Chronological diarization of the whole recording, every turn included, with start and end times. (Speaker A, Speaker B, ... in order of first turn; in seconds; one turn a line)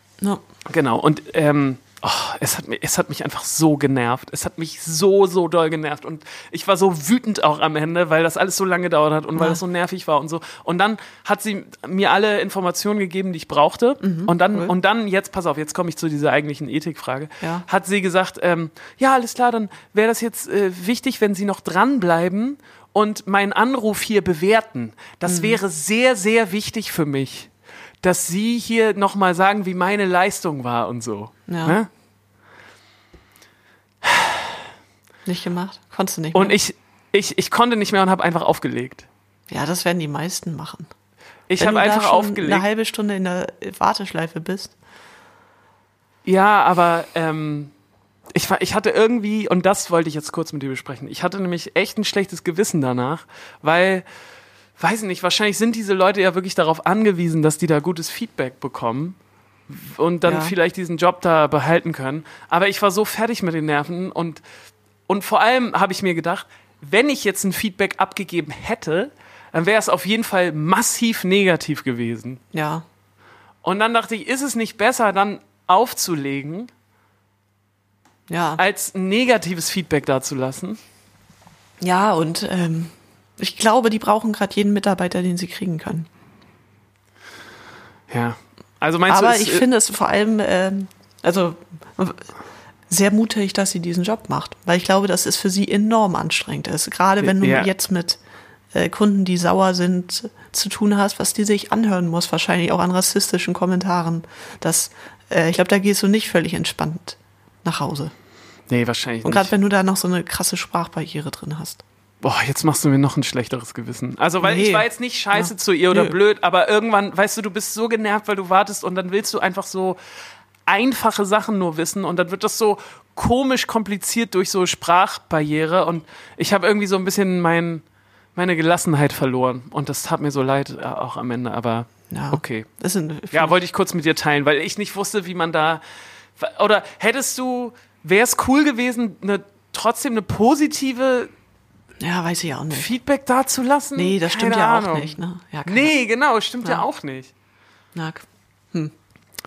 Speaker A: 0.7-27.5
Speaker B: 14.0-14.7
Speaker B: 17.4-17.6
Speaker B: 25.3-25.6
Speaker A: 28.0-31.9
Speaker B: 31.5-31.8
Speaker A: 34.0-34.5
Speaker B: 35.2-36.5
Speaker A: 36.3-39.1
Speaker B: 39.5-40.9
Speaker A: 41.5-42.6
Speaker B: 41.5-44.7
Speaker A: 46.2-47.7
Speaker A: 48.3-54.0
Speaker A: 54.8-59.2
Speaker A: 59.7-64.4
Speaker B: 60.2-60.5
Speaker A: 65.1-72.4
Speaker B: 72.5-72.8
Speaker A: 73.6-76.7
Speaker B: 78.3-78.6
Speaker A: 78.5-80.8
Speaker B: 81.8-86.1
Speaker A: 88.1-89.6
Speaker B: 89.1-92.3
Speaker B: 92.9-98.2
Speaker A: 97.2-97.7
Speaker B: 98.7-108.1
Speaker A: 108.7-109.5
Speaker B: 109.2-111.8
Speaker A: 112.2-120.0
Speaker B: 114.4-116.1
Speaker A: 120.7-127.8
Speaker A: 128.3-132.7
Speaker B: 132.1-133.6
Speaker A: 133.3-135.8
Speaker A: 136.4-141.3
Speaker B: 142.0-142.9
Speaker A: 142.7-147.3
Speaker B: 143.9-145.9
Speaker B: 147.9-148.9